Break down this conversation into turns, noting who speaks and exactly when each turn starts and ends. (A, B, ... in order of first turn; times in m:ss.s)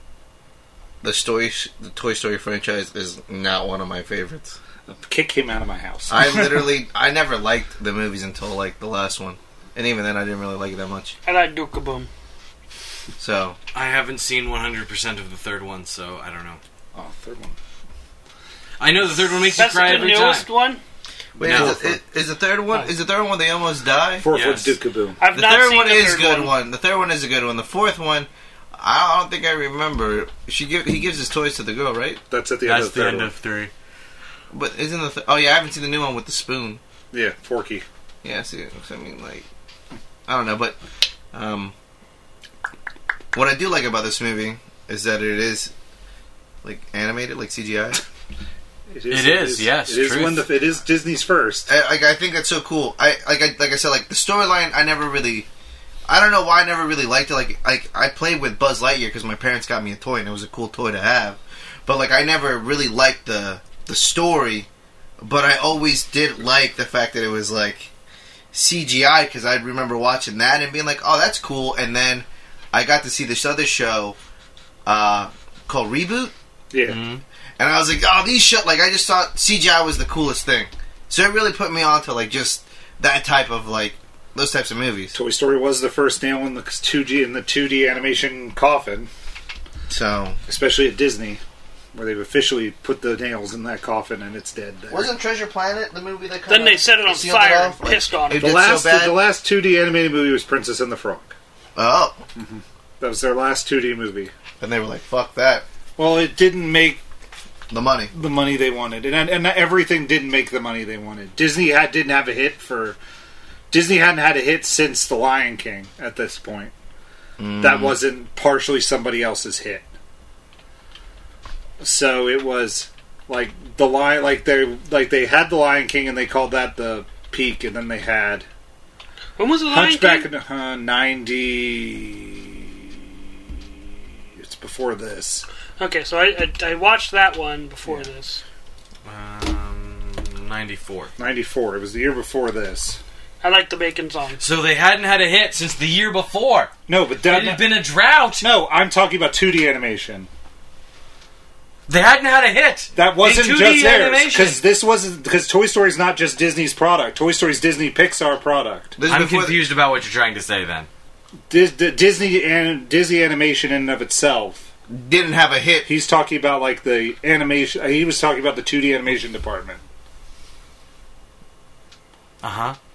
0:01.0-0:04.6 A
0:04.9-0:06.7 B
0:06.1-0:11.1 A
0:11.2-0:12.1 C
0:13.2-0:13.6 A
0:13.7-0:16.6 D
0:16.9-0:17.6 B
0:18.8-0:20.5 D
0:19.6-0:20.8 C
0:21.4-0:24.2 A
0:21.4-0:21.8 B
0:21.4-0:21.9 D
0:24.2-0:25.2 B
0:24.3-0:24.8 D
0:25.2-0:26.5 C
0:25.3-0:32.2 A
0:32.3-0:33.3 B
0:32.6-0:33.7 D
0:34.5-0:36.8 A
0:37.1-0:37.8 B
0:38.2-0:39.4 A
0:40.3-0:40.8 A
0:41.3-0:41.7 A
0:43.3-0:45.7 A
0:46.6-0:48.0 A
0:48.9-0:51.7 B
0:49.1-0:50.5 D
0:51.7-0:55.5 A
0:56.1-1:04.7 A
1:05.2-1:07.9 A
1:08.5-1:14.2 A
1:14.8-1:16.3 A
1:16.7-1:17.0 B
1:16.8-1:17.2 D
1:17.6-1:25.2 A
1:25.1-1:29.1 B
1:29.9-1:30.4 A
1:30.5-1:31.4 B
1:31.9-1:35.1 B
1:34.9-1:39.2 A
1:36.5-1:38.5 C
1:38.3-1:41.3 B
1:41.8-1:42.2 A
1:42.4-1:44.3 B
1:44.6-1:45.6 A
1:46.0-1:47.0 B
1:47.7-1:48.1 A
1:48.1-1:53.0 B
1:53.7-1:56.7 B
1:57.4-1:58.0 A
1:57.6-1:59.9 B
2:01.8-2:08.4 B
2:09.4-2:10.3 C
2:09.7-2:13.1 B
2:14.4-2:15.4 B
2:15.8-2:18.4 C
2:19.0-2:21.1 D
2:21.2-2:23.0 B
2:23.4-2:24.4 C
2:24.4-2:28.5 D
2:26.9-2:27.7 B
2:28.4-2:30.3 B
2:31.9-2:34.6 D
2:32.9-2:38.9 B
2:39.0-2:39.6 A
2:39.1-2:40.9 D
2:41.5-2:44.7 B
2:44.9-2:45.9 A
2:45.8-2:49.8 B
2:52.4-2:52.8 D